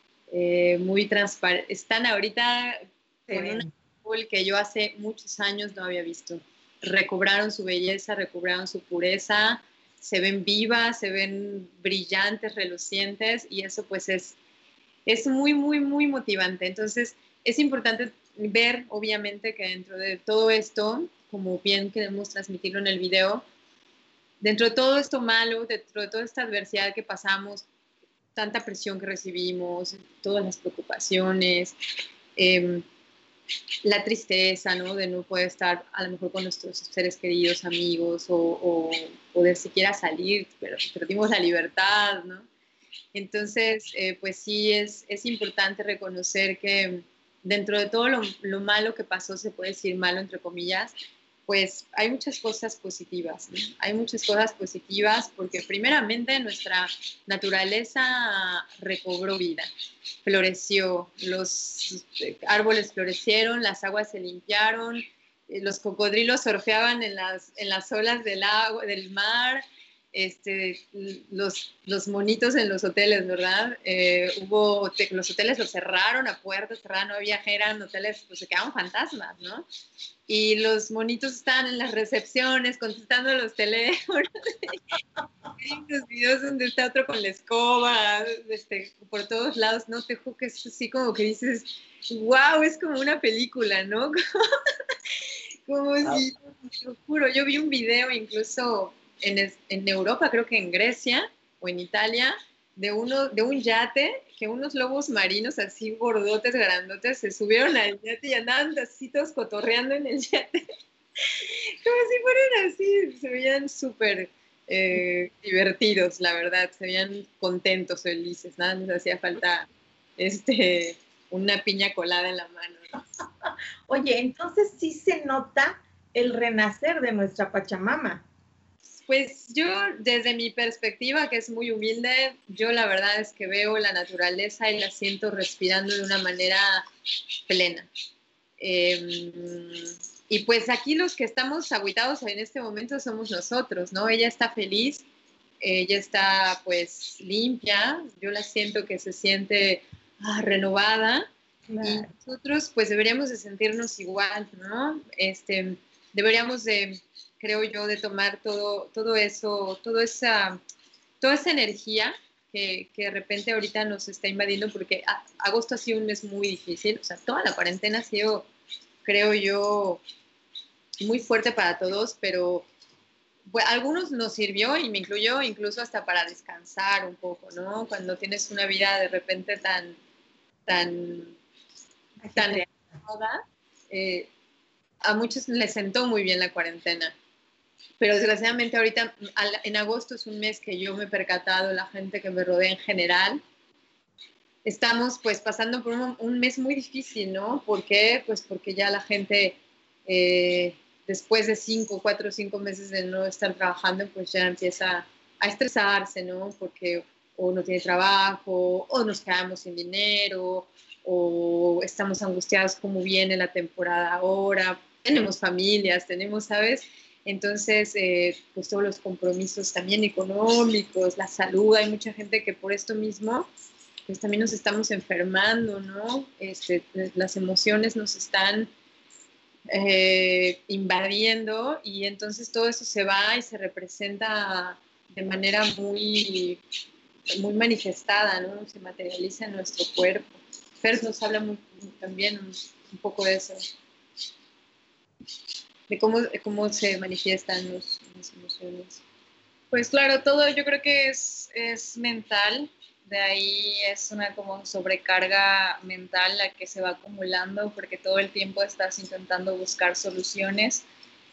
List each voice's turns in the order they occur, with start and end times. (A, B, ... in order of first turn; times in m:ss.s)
0:00.3-0:14.4 A
0:03.3-0:03.7 B
0:15.1-0:23.4 A
0:24.4-0:27.7 A
0:28.4-0:31.8 A
0:32.4-0:32.8 A
0:33.8-0:42.5 A
0:43.1-0:51.0 A
0:51.5-0:59.7 A
1:00.2-1:19.6 A
1:20.3-1:24.8 A
1:25.6-1:34.2 A
1:35.7-1:50.6 A
1:51.2-2:02.9 A
2:03.4-2:08.2 B
2:09.1-2:16.8 A
2:17.5-2:17.9 A
2:18.6-2:25.1 A
2:25.6-2:31.3 A
2:31.7-2:32.1 B
2:31.8-2:40.6 A
2:41.2-2:48.5 A
2:49.0-2:50.0 A
2:51.0-2:52.7 A
2:53.5-3:00.0 A
3:00.7-3:01.4 A
3:02.2-3:02.7 B
3:02.4-3:04.3 A
3:05.0-3:07.1 A
3:08.0-3:13.4 A
3:14.6-3:43.5 A
3:44.1-3:48.7 A
3:49.7-3:56.6 A
3:57.3-4:03.6 A
4:05.9-4:09.0 A
4:09.7-4:20.8 C